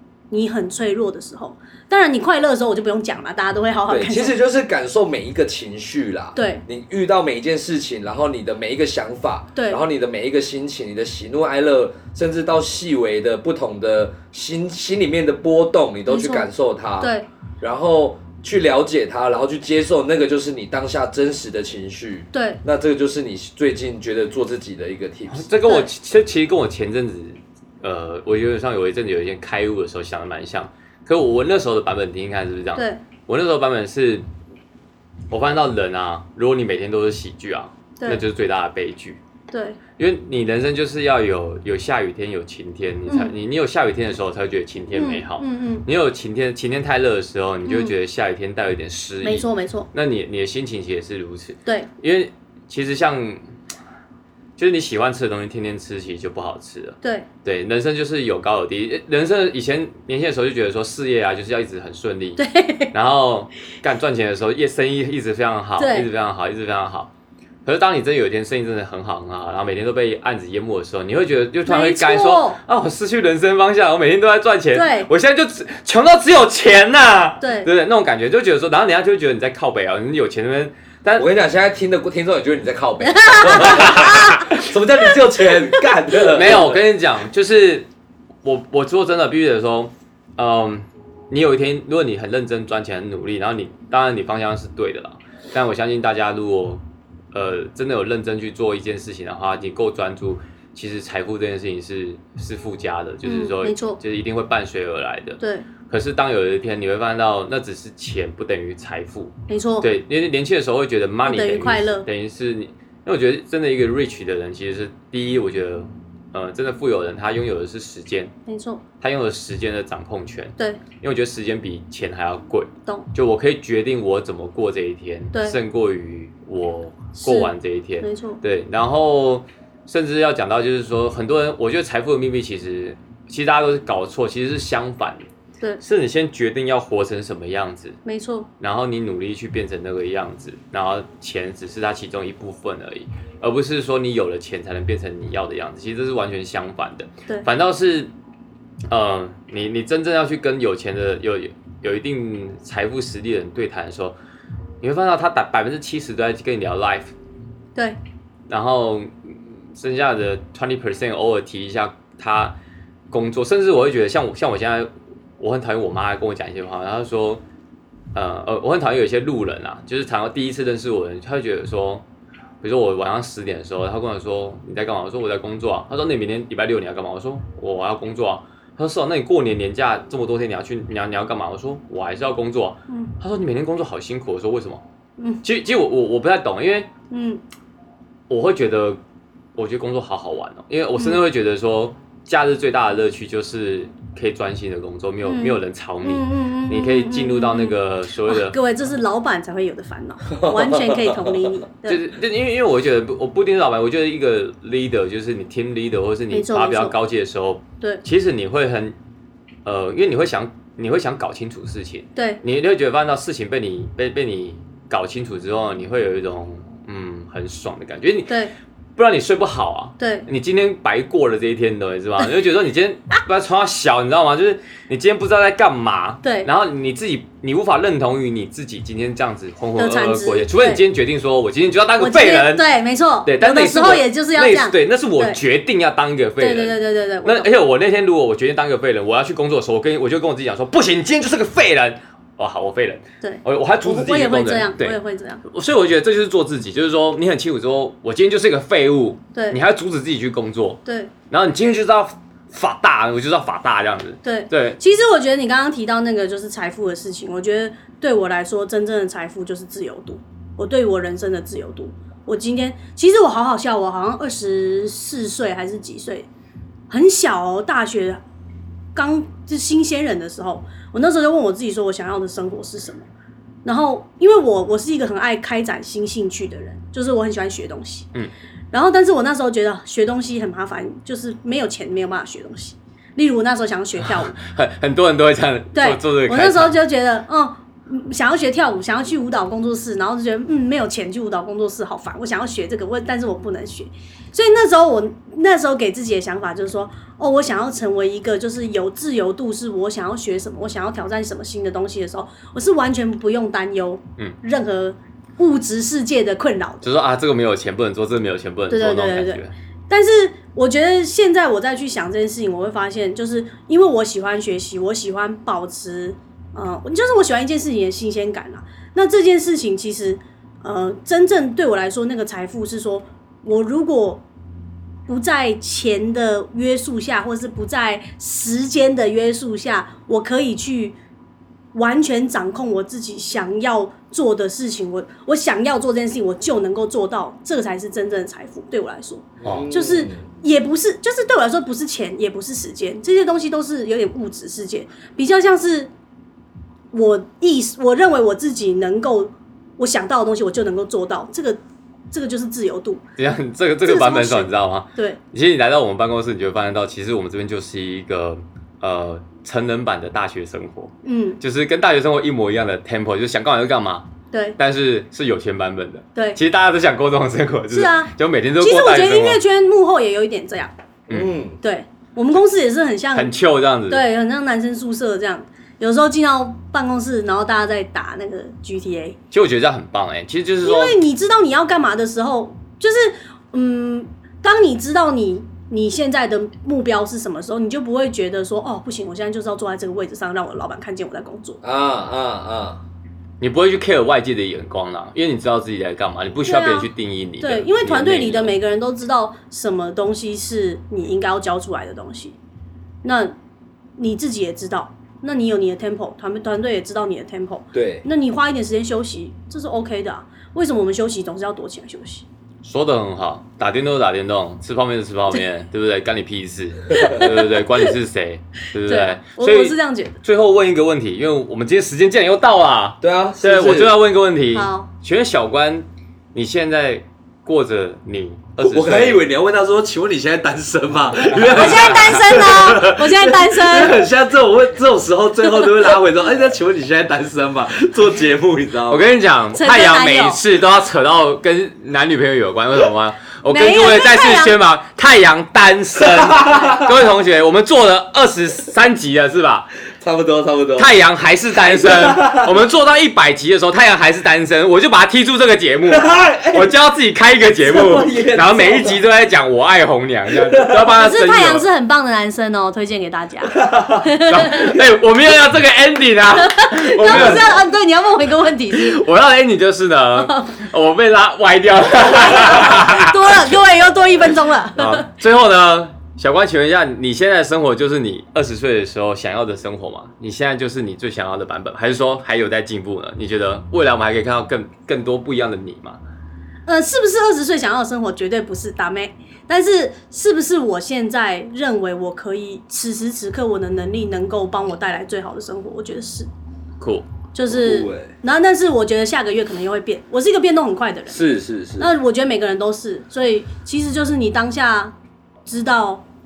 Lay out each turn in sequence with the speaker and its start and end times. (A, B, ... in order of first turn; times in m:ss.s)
0:00.3-0:04.4 A
0:03.9-0:25.5 B
0:06.4-0:06.6 A
0:09.6-0:09.8 A
0:16.1-0:16.5 A
0:17.0-0:17.3 A
0:22.3-0:22.6 A
0:25.3-0:34.2 C
0:32.8-0:33.0 A
0:35.3-0:39.2 C
0:39.5-0:39.8 A
0:40.0-0:53.4 C
0:43.0-0:43.3 A
0:44.9-0:45.8 A
0:47.6-0:47.9 A
0:49.2-0:49.9 A
0:54.6-1:07.1 C
1:02.4-1:02.9 A
1:05.8-1:06.1 A
1:07.6-1:21.3 C
1:11.6-1:12.6 A
1:14.7-1:15.1 A
1:17.4-1:17.7 A
1:21.2-1:26.8 B
1:23.0-1:24.5 A
1:23.6-1:24.5 C
1:26.2-1:27.9 C
1:28.4-1:36.8 C
1:37.3-1:58.3 C
1:43.2-1:44.0 A
1:45.4-1:45.7 A
1:49.5-1:49.9 A
1:51.2-1:52.1 A
1:58.4-1:58.8 A
1:59.0-2:15.2 C
2:07.2-2:08.4 A
2:15.8-2:18.0 C
2:18.0-2:18.5 A
2:18.6-2:28.1 C
2:28.9-2:34.2 C
2:34.8-2:37.1 C
2:38.5-2:42.6 C
2:43.1-2:47.4 C
2:48.1-2:52.0 C
2:52.6-3:04.8 C
3:05.4-3:06.9 C
3:07.1-3:07.4 A
3:08.3-3:09.0 C
3:09.6-3:18.6 C
3:11.0-3:11.2 A
3:15.2-3:22.0 A
3:20.3-3:21.5 B
3:21.9-3:28.9 C
3:26.3-3:26.9 A
3:29.6-3:38.3 C
3:32.2-3:32.4 A
3:38.3-3:38.5 A
3:39.0-3:52.7 C
3:40.0-3:40.3 A
3:46.2-3:46.5 A
3:49.8-3:50.8 A
3:52.0-3:55.4 A
3:53.2-4:14.8 C
3:56.4-3:57.5 A
4:03.2-4:05.4 A
4:10.8-4:11.1 A
4:14.2-4:26.3 A
4:26.9-4:28.2 A
4:28.9-4:33.0 A
4:33.6-4:38.1 A
4:38.7-4:44.3 A
4:44.0-4:46.8 C
4:45.7-5:06.8 A
5:06.8-5:09.5 C
5:08.7-5:24.2 A
5:25.1-5:31.0 A
5:31.7-5:45.9 A
5:39.4-5:40.2 B
5:46.9-5:51.6 A
5:52.1-5:53.0 A
5:53.2-6:09.4 C
5:53.8-5:55.2 A
6:01.0-6:01.4 A
6:04.3-6:04.6 A
6:07.7-6:10.7 A
6:11.1-6:11.6 B
6:11.6-6:13.3 A
6:13.1-6:14.0 C
6:13.9-6:19.2 A
6:19.3-6:21.0 C
6:20.6-6:31.6 A
6:31.6-6:32.8 B
6:33.4-6:38.6 C
6:36.4-6:36.9 A
6:37.4-6:42.3 A
6:43.0-6:43.3 A
6:44.0-6:52.2 A
6:47.7-6:48.0 B
6:52.6-7:09.2 C
6:56.9-6:57.2 B
6:57.0-6:57.9 A
6:58.9-7:00.2 A
7:03.0-7:04.0 B
7:04.5-7:04.9 A
7:08.6-7:19.1 B
7:11.3-7:12.1 C
7:11.5-7:14.0 A
7:18.9-7:29.7 C
7:19.5-7:20.4 A
7:23.5-7:24.5 A
7:26.2-7:26.8 B
7:30.0-7:30.9 B
7:30.8-7:41.6 C
7:31.6-7:32.5 B
7:35.9-7:36.7 B
7:37.6-7:39.0 B
7:40.3-7:40.8 B
7:40.9-7:44.7 A
7:43.5-7:44.0 B
7:44.2-7:47.5 C
7:46.4-7:49.0 A
7:48.7-7:53.6 C
7:50.2-7:50.5 A
7:52.2-7:55.0 A
7:54.8-8:06.0 C
8:06.7-8:16.3 A
8:16.8-8:17.1 C
8:17.3-8:21.2 A
8:17.5-8:18.1 B
8:21.1-8:21.9 B
8:21.8-8:24.9 A
8:25.4-8:26.0 A